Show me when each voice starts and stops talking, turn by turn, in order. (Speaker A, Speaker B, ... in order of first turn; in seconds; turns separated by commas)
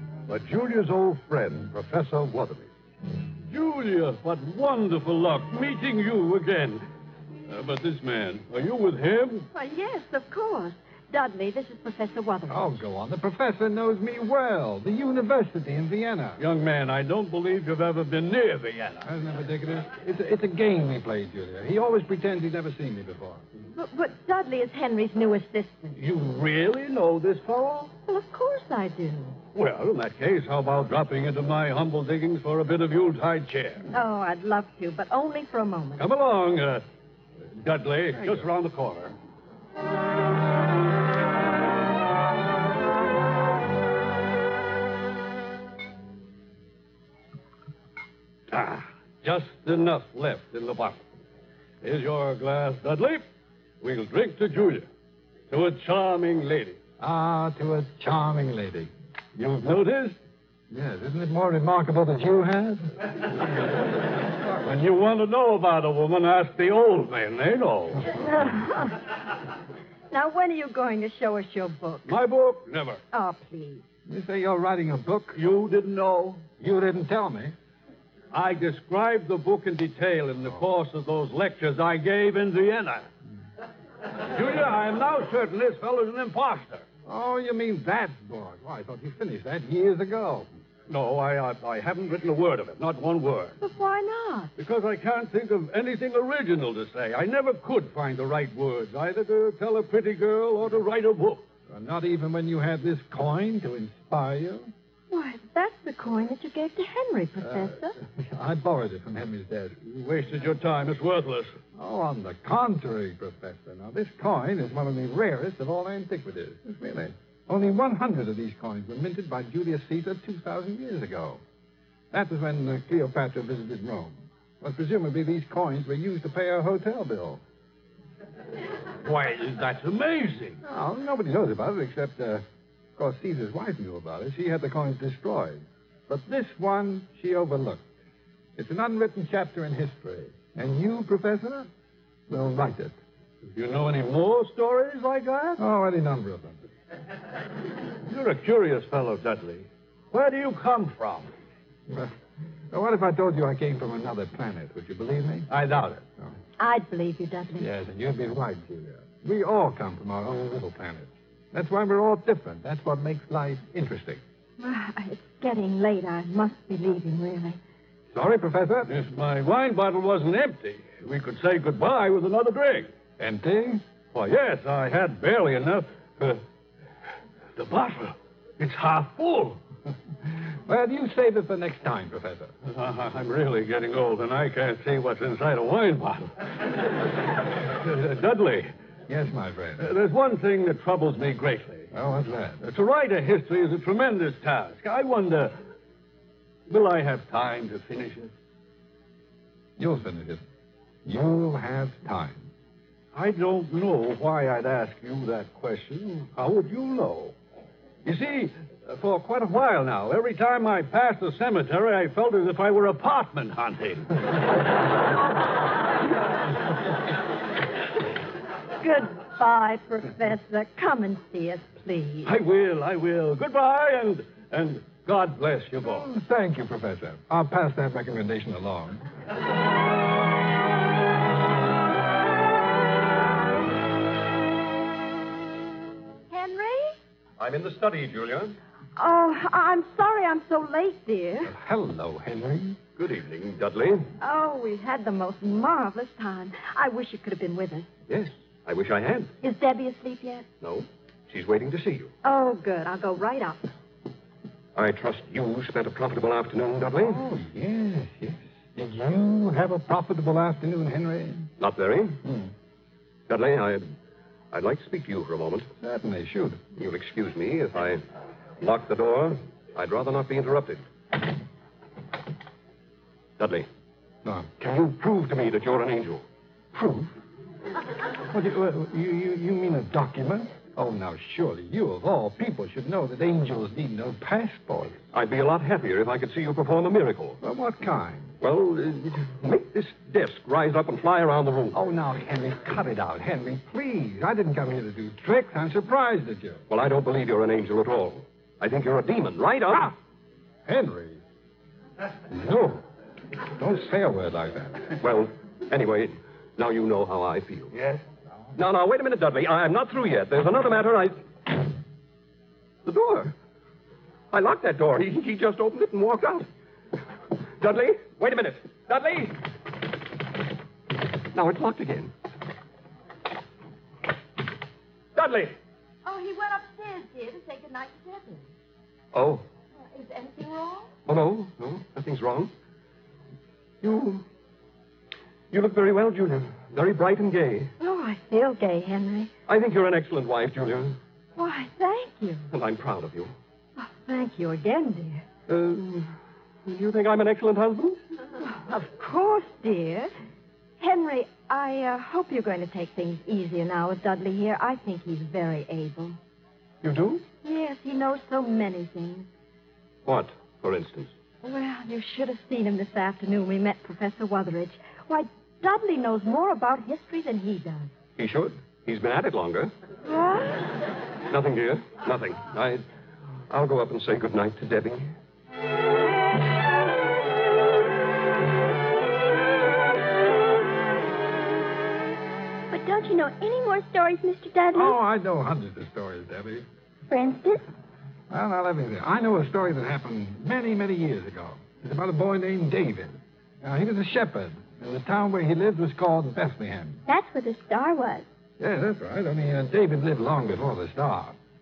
Speaker A: 0.3-2.7, Speaker B: 3.5-6.8, Speaker B: 7.5-9.5, Speaker C: 9.5-12.8, Speaker D: 12.5-16.4, Speaker B: 16.4-19.0, Speaker D: 19.0-23.4, Speaker C: 23.8-25.9, Speaker B: 26.0-27.9, Speaker C: 28.1-29.4, Speaker B: 29.5-33.8, Speaker C: 33.9-36.1, Speaker B: 36.0-36.8, Speaker B: 37.6-39.1, Speaker B: 48.5-51.0, Speaker B: 51.8-53.2, Speaker B: 53.8-54.9, Speaker B: 55.5-56.8, Speaker D: 57.0-58.9, Speaker B: 59.4-60.2, Speaker D: 60.7-62.9, Speaker B: 64.6-68.1, Speaker C: 68.2-68.9, Speaker C: 70.1-72.1, Speaker B: 72.0-73.0, Speaker C: 73.1-73.8, Speaker D: 74.0-75.4, Speaker B: 75.3-76.4, Speaker D: 76.6-77.5, Speaker B: 78.3-83.1, Speaker B: 84.3-86.8, Speaker D: 87.0-90.5, Speaker B: 90.9-93.6, Speaker C: 93.6-94.5, Speaker B: 94.6-101.4, Speaker D: 101.7-104.7, Speaker C: 105.1-107.9, Speaker D: 107.4-109.8, Speaker B: 109.8-111.5, Speaker D: 111.7-121.4, Speaker D: 122.1-127.4, Speaker B: 129.0-130.6, Speaker D: 130.6-132.4, Speaker D: 133.0-137.8, Speaker D: 138.6-141.7, Speaker D: 142.3-142.9, Speaker B: 143.5-145.6, Speaker D: 145.6-146.6, Speaker B: 148.1-151.3, Speaker D: 151.9-152.1, Speaker D: 152.7-155.5, Speaker B: 155.5-156.0, Speaker C: 156.6-157.7, Speaker D: 157.6-164.2, Speaker C: 164.6-167.6, Speaker D: 168.1-168.9, Speaker B: 168.9-172.9, Speaker D: 173.2-173.8, Speaker B: 174.1-176.4, Speaker B: 177.6-179.6, Speaker D: 180.7-182.5, Speaker B: 182.6-186.3, Speaker B: 187.7-188.7, Speaker D: 189.1-189.9, Speaker B: 189.8-191.9, Speaker D: 191.9-192.6, Speaker B: 192.6-195.6, Speaker B: 196.7-198.3, Speaker D: 199.8-200.4, Speaker D: 201.0-202.5, Speaker B: 203.1-207.3, Speaker B: 208.0-214.1, Speaker C: 218.8-222.3, Speaker B: 222.2-226.1, Speaker D: 225.9-229.0, Speaker C: 236.3-237.0, Speaker E: 237.4-238.6, Speaker C: 238.9-241.5, Speaker D: 241.4-242.8, Speaker E: 243.0-244.1, Speaker C: 244.2-247.9, Speaker E: 248.1-249.3, Speaker C: 249.4-250.4, Speaker E: 250.6-252.1, Speaker C: 252.2-253.7, Speaker E: 254.7-257.2, Speaker D: 256.9-261.5, Speaker E: 261.6-262.2, Speaker D: 262.2-262.5, Speaker E: 263.3-263.9, Speaker E: 264.5-265.7, Speaker D: 265.8-266.6, Speaker E: 266.8-268.0, Speaker E: 268.6-270.8, Speaker E: 273.4-273.7, Speaker D: 274.2-274.6, Speaker E: 274.6-276.2, Speaker D: 276.7-277.1, Speaker D: 278.3-285.0, Speaker E: 285.1-287.4, Speaker D: 287.4-288.4, Speaker E: 288.4-291.8, Speaker D: 291.7-296.6, Speaker E: 296.7-299.9, Speaker D: 300.6-301.2, Speaker D: 302.3-302.8, Speaker D: 303.5-304.9, Speaker E: 305.0-307.7, Speaker E: 308.6-311.2, Speaker E: 312.8-313.3, Speaker E: 314.3-316.5, Speaker E: 317.6-319.5, Speaker E: 321.3-322.1, Speaker E: 325.1-325.6, Speaker C: 326.0-328.4, Speaker E: 329.1-329.4, Speaker C: 329.9-330.9, Speaker E: 331.1-332.5, Speaker E: 333.8-334.2, Speaker E: 335.5-337.7, Speaker C: 337.8-339.3, Speaker E: 339.5-341.0, Speaker C: 341.4-342.5, Speaker E: 342.5-343.3, Speaker C: 343.8-345.2, Speaker E: 345.5-346.1, Speaker E: 346.6-348.0, Speaker C: 348.5-350.1, Speaker C: 350.8-356.2, Speaker E: 356.8-357.2, Speaker C: 357.4-359.3, Speaker E: 360.0-361.1, Speaker C: 361.4-367.9, Speaker E: 368.2-369.7, Speaker C: 370.1-370.6, Speaker E: 371.3-372.8, Speaker E: 373.5-375.1, Speaker F: 382.7-385.0, Speaker D: 384.7-386.6, Speaker F: 387.1-387.6, Speaker D: 388.3-397.0, Speaker F: 397.1-398.2, Speaker D: 398.6-401.4